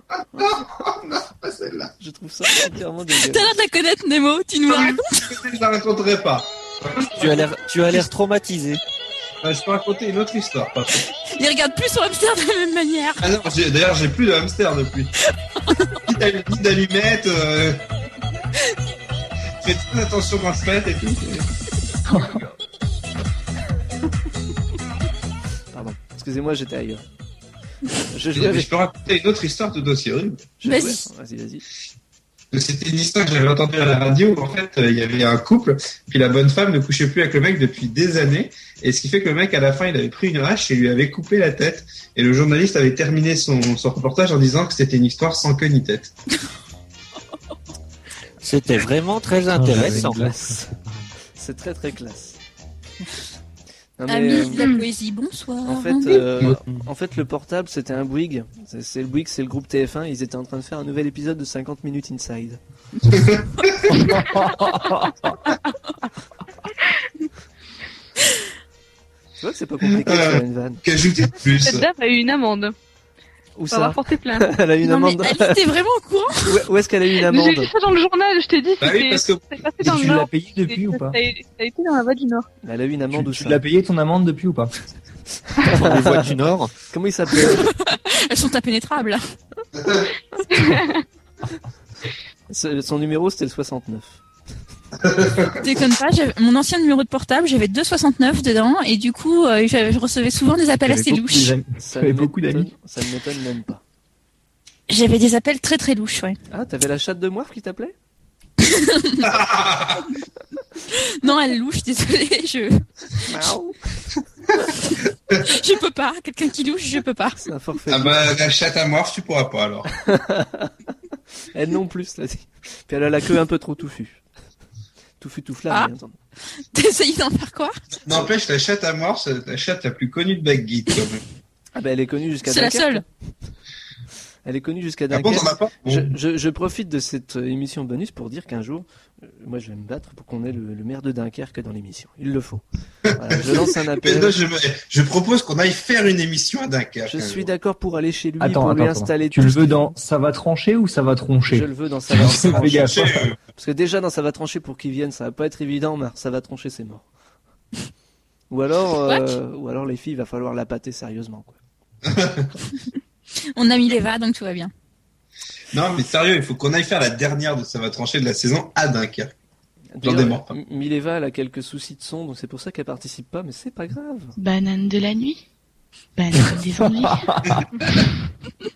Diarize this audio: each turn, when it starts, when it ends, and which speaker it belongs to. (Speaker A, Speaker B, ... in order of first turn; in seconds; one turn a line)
Speaker A: 0.3-0.6
Speaker B: 0.4-1.9
Speaker A: 2.0-3.5
Speaker C: 3.3-5.2
Speaker B: 4.7-7.5
Speaker D: 7.1-8.8
Speaker B: 9.4-11.1
Speaker C: 11.3-13.2
Speaker B: 13.2-15.1
Speaker B: 16.0-17.8
Speaker B: 19.6-21.4
Speaker E: 22.1-22.4
Speaker A: 25.7-27.0
Speaker A: 28.1-28.7
Speaker B: 28.3-30.5
Speaker A: 30.6-31.6
Speaker C: 30.7-31.0
Speaker B: 32.5-46.1
Speaker D: 48.4-50.2
Speaker E: 49.5-51.1
Speaker A: 49.8-50.7
Speaker A: 51.4-52.4
Speaker A: 54.0-54.6
Speaker C: 54.1-56.2
Speaker F: 54.5-54.9
Speaker A: 55.6-62.6
Speaker B: 63.0-64.0
Speaker E: 63.9-65.3
Speaker A: 69.4-70.8
Speaker B: 69.9-71.8
Speaker F: 71.5-72.7
Speaker A: 73.5-75.6
Speaker F: 73.7-74.5
Speaker C: 74.8-76.6
Speaker A: 76.4-77.7
Speaker F: 77.2-82.5
Speaker B: 78.8-79.6
Speaker E: 79.8-81.2
Speaker A: 82.6-83.6
Speaker E: 83.1-84.7
Speaker A: 85.6-86.3
Speaker D: 85.7-86.7
Speaker A: 86.9-87.7
Speaker C: 87.4-89.2
Speaker B: 89.7-90.1
Speaker F: 90.5-91.0
Speaker A: 92.5-94.2
Speaker B: 95.0-95.7
Speaker C: 95.6-101.5
Speaker E: 100.8-102.7
Speaker A: 101.8-103.8
Speaker C: 104.9-106.4
Speaker A: 106.5-107.9
Speaker C: 108.6-109.2
Speaker B: 109.2-110.1
Speaker C: 110.9-113.2
Speaker A: 113.2-114.2
Speaker C: 115.4-117.4
Speaker A: 117.4-118.2
Speaker B: 117.9-119.9
Speaker A: 120.0-120.7
Speaker A: 121.5-124.2
Speaker A: 125.2-126.2
Speaker C: 126.7-127.7
Speaker B: 128.1-131.2
Speaker A: 131.7-133.1
Speaker C: 132.4-133.0
Speaker A: 134.4-142.6
Speaker B: 135.1-136.1
Speaker B: 143.1-147.5
Speaker A: 143.2-144.3
Speaker A: 147.1-149.9
Speaker E: 148.4-153.3
Speaker A: 151.5-152.9
Speaker B: 152.1-153.4
Speaker A: 153.5-157.1
Speaker A: 158.5-161.6
Speaker C: 159.1-159.3
Speaker B: 162.0-162.6
Speaker C: 163.5-164.7
Speaker B: 165.7-169.3
Speaker A: 169.9-174.3
Speaker B: 170.0-170.5
Speaker G: 174.4-175.4
Speaker G: 176.2-177.3
Speaker E: 177.0-177.6
Speaker B: 177.4-177.9